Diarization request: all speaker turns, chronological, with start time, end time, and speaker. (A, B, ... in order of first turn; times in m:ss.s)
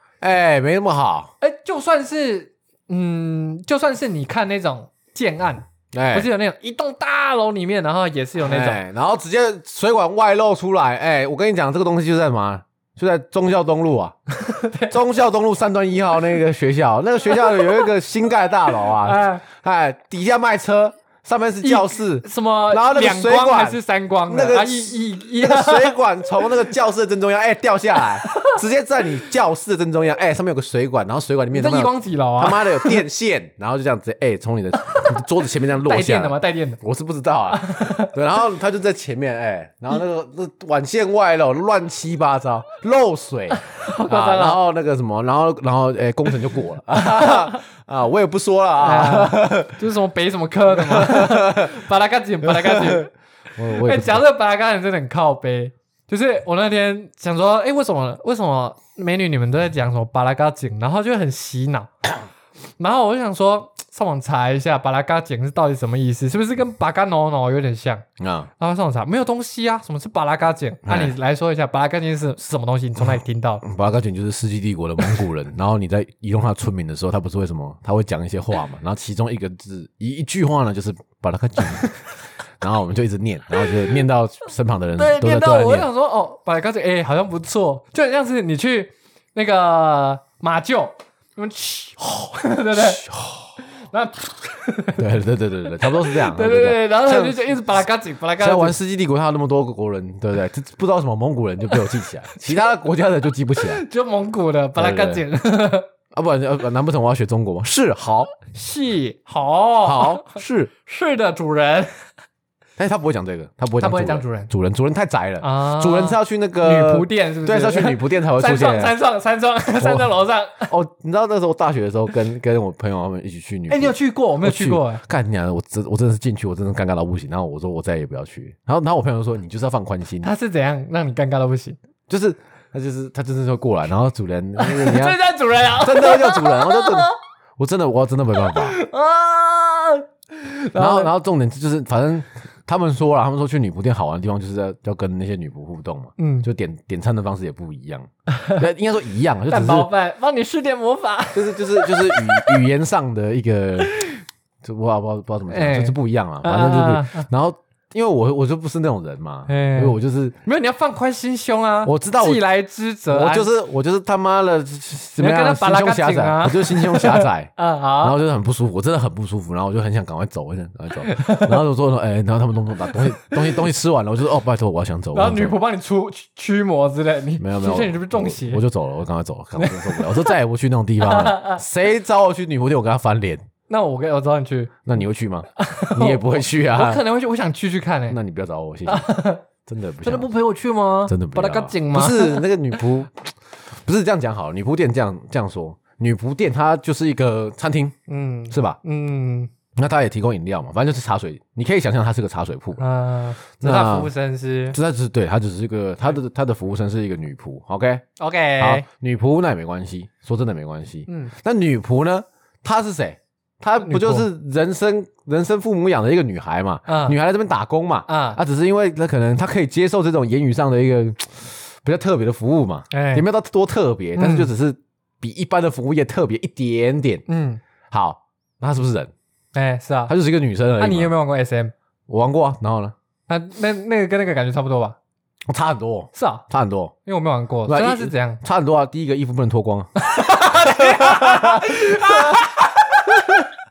0:00.2-0:01.3 A
0:01.4-0:08.8 B
0:05.9-0:06.3 A
0:08.4-0:14.2 A
0:14.4-0:15.0 B
0:14.9-0:49.8 A
0:17.4-0:17.9 B
0:18.8-0:19.4 B
0:21.6-0:26.6 B
0:28.2-0:28.6 B
0:31.5-0:33.0 B
0:35.8-0:36.8 B
0:37.5-0:38.1 B
0:43.6-0:44.6 B
0:47.0-0:47.6 B
0:48.8-0:53.1 B
0:50.7-0:51.7 A
0:52.4-0:53.0 A
0:53.6-0:54.2 A
0:53.8-1:01.9 B
1:02.8-1:08.0 B
1:08.2-1:08.5 A
1:08.6-1:13.6 B
1:10.9-1:11.1 A
1:13.6-1:21.9 A
1:22.6-1:25.9 A
1:25.0-1:33.0 B
1:32.7-1:33.5 A
1:33.6-1:35.0 B
1:35.0-1:37.4 A
1:35.8-1:38.8 B
1:38.4-1:43.8 A
1:43.6-1:45.9 B
1:44.8-1:45.2 A
1:46.1-1:48.3 A
1:48.5-1:51.9 B
1:49.8-1:50.7 A
1:52.8-1:59.0 A
1:53.8-1:54.5 B
1:55.4-2:00.7 B
1:59.8-2:00.1 A
2:00.7-2:10.3 A
2:03.7-2:05.0 B
2:10.2-2:11.8 B
2:12.1-2:15.2 A
2:14.6-2:17.1 B
2:15.7-2:18.8 A
2:18.5-2:21.1 B
2:20.8-2:29.9 A
2:26.2-2:26.5 B
2:28.3-2:28.6 B
2:29.5-2:32.6 B
2:31.3-2:33.9 A
2:33.8-2:34.2 B
2:34.6-2:40.4 A
2:35.5-2:37.3 B
2:39.5-2:43.5 B
2:41.8-2:42.4 A
2:43.1-2:47.5 A
2:45.1-2:48.2 B
2:48.0-2:55.6 A
2:51.0-2:51.6 B
2:55.1-2:58.6 B
2:57.4-3:03.4 A
2:59.6-3:00.3 B
3:01.0-3:01.6 B
3:03.7-3:04.8 B
3:04.9-3:07.0 A
3:05.6-3:08.2 B
3:08.1-3:09.1 A
3:08.9-3:09.4 B
3:09.7-3:10.3 A
3:10.0-3:12.5 B
3:11.1-3:18.0 A
3:18.1-3:19.5 B
3:18.5-3:18.8 A
3:19.8-3:22.8 A
3:22.8-3:24.8 B
3:23.6-3:24.1 A
3:24.7-3:28.0 A
3:28.2-3:28.9 B
3:28.6-3:47.2 A
3:31.1-3:31.3 B
3:33.8-3:34.3 B
3:36.9-3:37.2 B
3:38.1-3:38.4 B
3:42.9-3:43.3 B
3:44.2-3:44.5 B
3:47.3-3:47.6 B
3:47.9-3:49.1 A
3:49.6-3:50.1 B
3:50.1-3:51.1 A
3:50.8-3:51.7 B
3:52.1-3:52.9 A
3:53.3-3:55.0 B
3:55.5-3:56.9 A
3:56.1-3:56.4 B
3:57.0-3:58.4 B
3:57.7-4:02.5 A
4:00.0-4:03.4 B
4:03.1-4:03.5 A